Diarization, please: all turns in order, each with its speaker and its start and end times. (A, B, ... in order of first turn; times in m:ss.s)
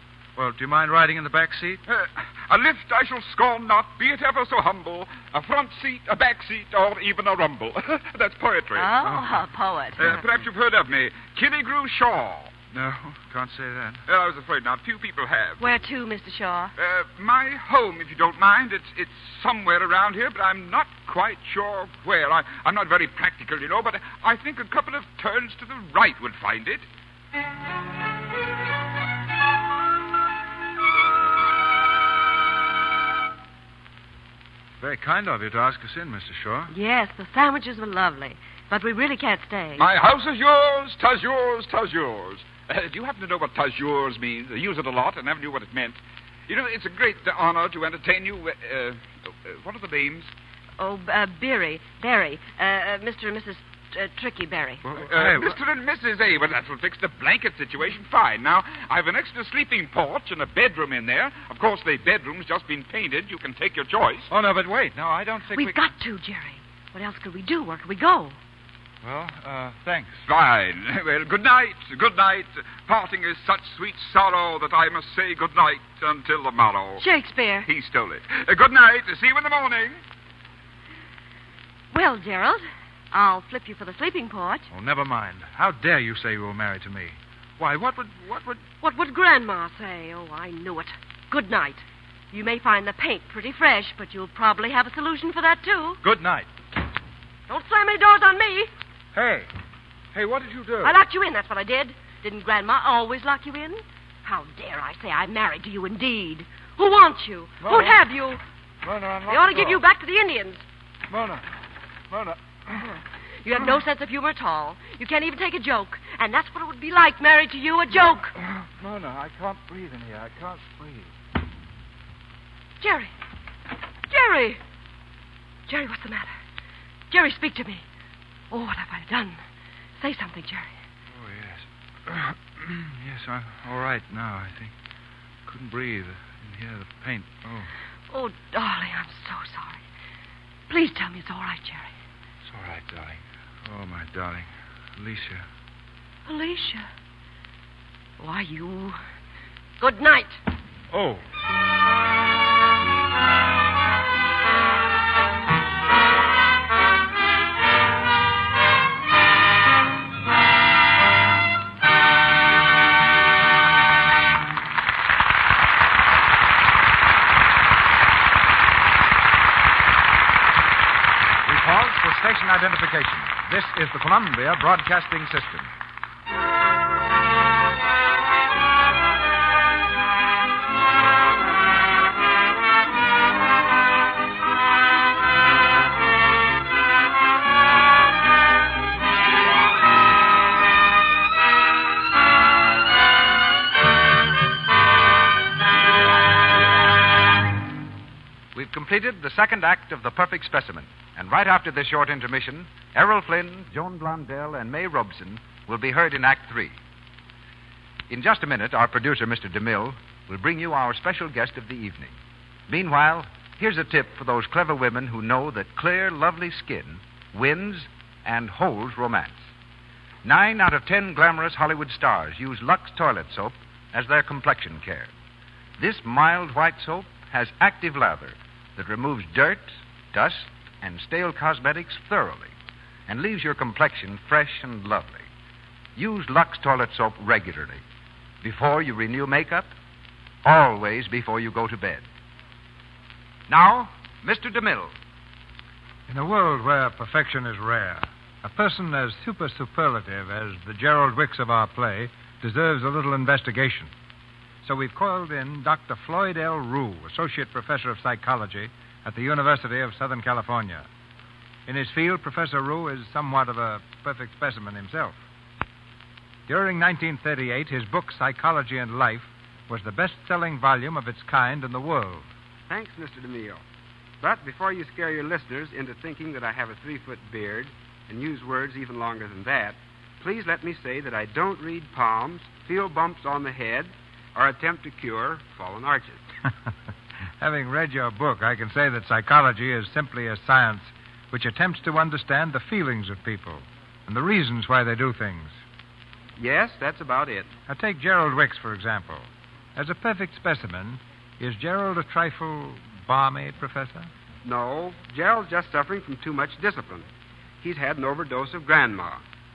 0:00.4-0:01.8 A
0:01.9-0:09.2 B
0:08.7-0:10.3 C
0:10.0-0:12.5 B
0:12.7-0:14.0 A
0:14.1-0:15.6 B
0:15.6-0:16.7 C
0:16.8-0:26.8 B
0:34.8-0:36.7 A
0:36.7-0:39.8 C
0:39.8-0:50.3 B
0:50.8-0:54.8 C
0:54.8-0:55.6 A
0:54.9-1:04.3 B
1:04.3-1:05.8 A
1:05.5-1:08.4 C
1:09.0-1:10.2 A
1:10.3-1:17.0 B
1:17.0-1:17.7 C
1:17.7-1:20.0 B
1:21.9-1:24.7 C
1:24.7-1:28.6 A
1:28.8-1:36.0 C
1:36.0-1:36.5 A
1:37.5-1:38.7 C
1:39.1-1:39.5 A
1:40.1-1:41.0 A
1:40.8-1:48.4 C
1:47.6-1:48.0 A
1:48.8-1:49.8 A
1:49.3-1:50.6 C
1:51.1-1:51.4 A
1:52.1-1:52.8 A
1:53.4-1:58.3 C
1:58.4-2:01.1 A
2:02.8-2:03.1 C
2:04.1-2:04.6 C
2:05.7-2:06.3 C
2:07.1-2:07.8 C
2:08.5-2:09.4 C
2:10.0-2:10.7 C
2:11.1-2:14.7 A
2:15.5-2:17.7 A
2:18.1-2:19.8 C
2:20.7-2:21.9 C
2:22.5-2:25.4 A
2:26.3-2:26.9 C
2:28.2-2:29.0 C
2:29.8-2:30.4 C
2:30.9-2:31.2 A
2:51.5-2:55.7 D
3:18.5-3:26.8 D
3:28.1-3:32.2 D
3:32.7-3:39.4 D
3:40.2-3:45.1 D
3:45.8-3:52.5 D
3:53.1-3:55.3 D
3:56.0-3:57.8 D
3:58.4-3:59.7 D
4:00.4-4:02.0 D
4:03.5-4:04.9 D
4:06.1-4:13.9 E
4:14.6-4:20.9 E
4:21.7-4:25.2 E
4:26.5-4:32.3 E
4:32.7-4:33.6 F
4:34.2-4:46.2 F
4:47.4-4:55.6 E
4:56.4-4:57.5 F
4:57.7-5:04.1 E
5:04.4-5:07.1 F
5:07.6-5:09.2 F